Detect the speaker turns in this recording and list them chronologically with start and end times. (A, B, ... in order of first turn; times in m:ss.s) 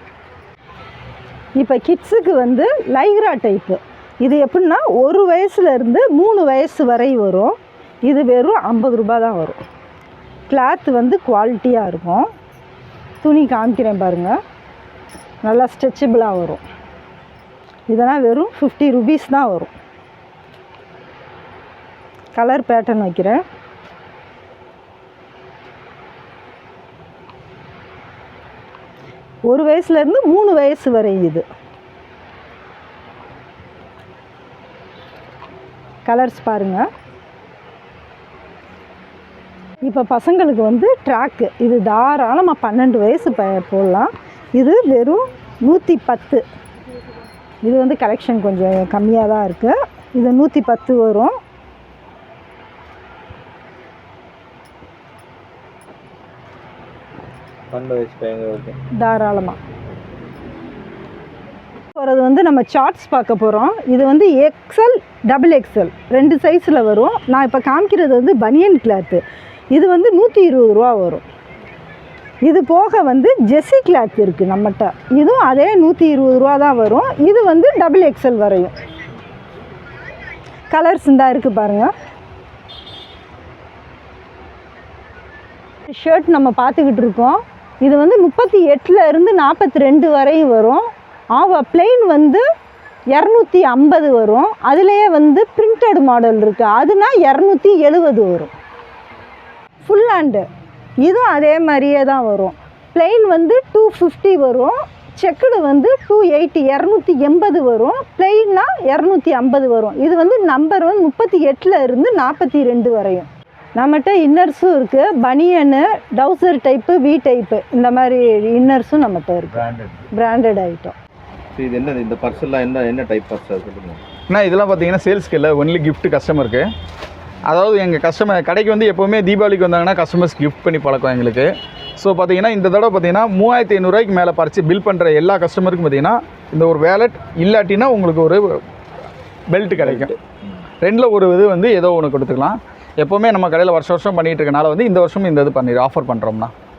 0:01.6-0:09.6 A
0:10.5-0:12.3 A
0:13.2-0:14.4 A
0:15.4-0:16.6 A
0:17.9-0:19.7 A
0:22.3-0:23.4 A
0:29.5-0:31.4 A
0:36.0-0:36.8 A
0:39.8-0:46.4 A
0:47.6-0:51.4 A
0:57.7-0:58.8 B
0:58.9-0:59.6 A
1:01.9-1:11.2 A
1:12.4-1:18.7 A
1:20.7-1:21.9 A
1:25.9-1:32.4 A
1:33.1-1:38.5 A
1:39.8-1:40.4 A
1:41.0-2:00.9 A
2:01.5-2:04.0 B
2:04.3-2:06.7 C
2:07.4-2:18.6 C
2:19.5-2:20.1 C
2:19.8-2:20.1 B
2:20.8-2:26.5 C